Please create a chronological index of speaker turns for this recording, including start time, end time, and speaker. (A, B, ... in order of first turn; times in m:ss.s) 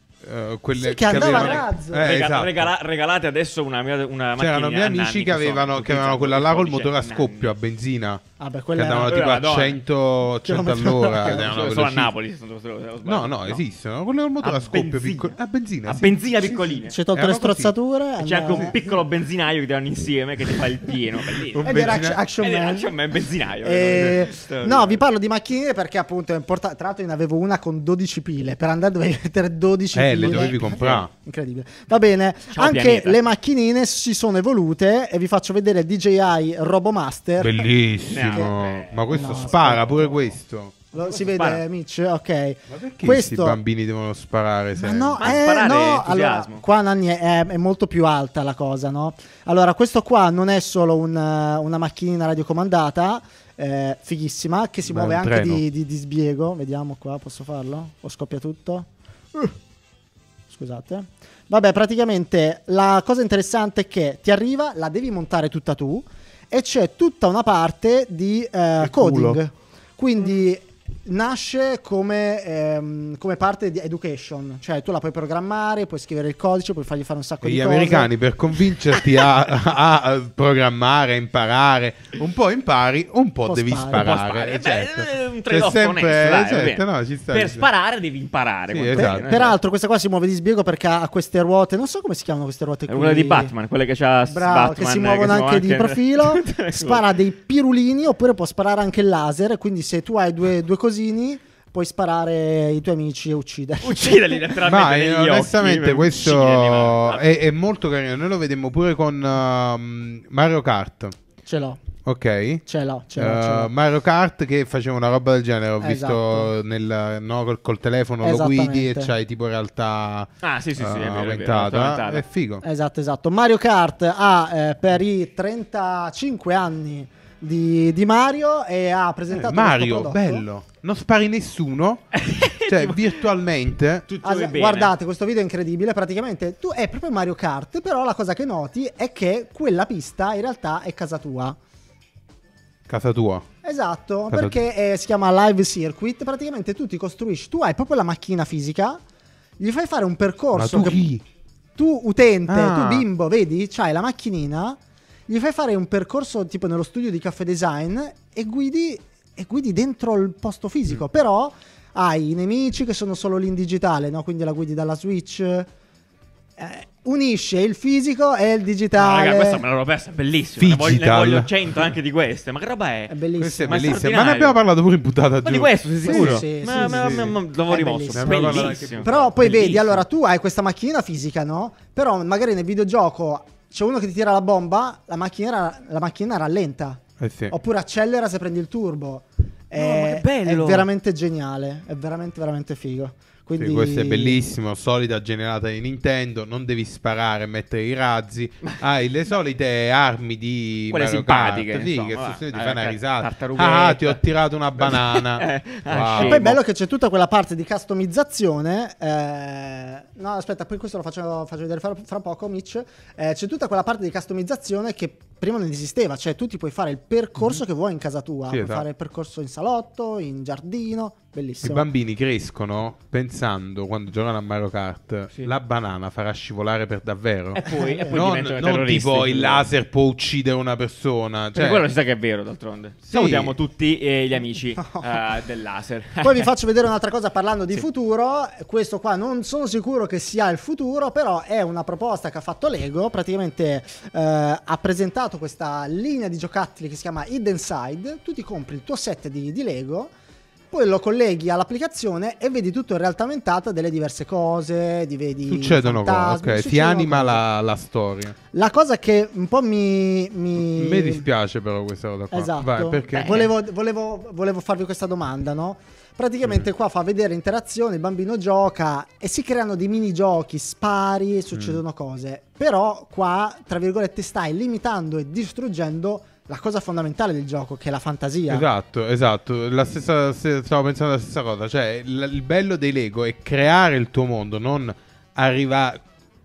0:00.2-0:02.7 A
0:00.8-0:02.1 B
0:01.1-0:07.5 C
0:04.4-0:08.2 A
0:08.4-0:09.2 B
0:08.7-0:12.1 A
0:09.1-0:09.8 C
0:10.4-0:11.5 B
0:11.2-0:13.6 C
0:13.0-0:17.7 A
0:14.4-0:17.0 C
0:16.6-0:19.0 B
0:18.2-0:21.7 C
0:21.5-0:22.2 A
0:21.6-0:23.0 B
0:22.4-0:25.0 C
0:23.6-0:37.7 B
0:29.9-0:31.1 A
0:30.6-0:31.1 C
0:32.5-0:33.2 C
0:37.4-0:40.8 A
0:38.1-0:40.3 C
0:38.2-0:38.5 B
0:39.1-0:39.8 B
0:40.9-0:43.6 B
0:41.0-0:41.6 C
0:42.7-0:45.4 A
0:44.8-0:59.6 B
0:45.2-0:46.6 C
0:54.8-0:55.6 A
1:00.5-1:18.1 B
1:08.8-1:09.4 A
1:17.4-1:27.7 A
1:23.5-1:24.2 B
1:23.9-1:29.6 C
1:28.7-1:29.3 A
1:28.9-1:33.5 B
1:32.9-1:37.1 C
1:34.3-1:44.4 B
1:43.8-1:47.3 C
1:44.6-1:51.2 A
1:51.5-1:51.8 B
1:52.0-1:52.6 A
1:52.7-1:53.7 B
1:53.2-2:02.6 A
1:55.8-1:56.5 B
1:58.2-1:59.1 B
2:00.4-2:02.2 C
2:02.6-2:10.4 B
2:09.3-2:12.1 A
2:12.1-2:13.2 C
2:12.6-2:14.1 A
2:14.1-2:14.9 C
2:14.2-2:21.6 B
2:22.9-2:23.5 A
2:23.6-2:29.0 B
2:24.3-2:24.6 A
2:29.6-2:31.0 B
2:30.5-2:31.2 A
2:31.8-2:45.7 B
2:32.5-2:33.1 A
2:46.6-2:49.6 B
2:49.0-2:54.6 C
2:50.6-2:51.5 A
2:53.1-2:54.0 B
2:53.4-2:57.3 A
2:55.4-3:00.0 C
2:56.0-3:14.4 B
2:58.1-2:59.5 A
3:07.2-3:07.6 A
3:09.7-3:10.9 C
3:13.6-3:26.6 A
3:20.9-3:24.2 C
3:24.8-3:26.6 C
3:26.1-3:41.9 B
3:38.5-3:38.9 A
3:41.6-3:51.9 A
3:47.6-3:49.7 C
3:47.6-3:48.4 B
3:51.5-3:56.5 C
3:53.1-3:53.6 A
3:54.8-3:55.2 B
3:56.2-4:10.1 B
4:10.7-4:17.4 B
4:15.5-4:18.4 A
4:18.5-4:21.3 B
4:20.6-4:23.4 A
4:22.3-4:38.7 B
4:23.1-4:23.5 C
4:31.5-4:31.8 A
4:38.5-4:46.0 A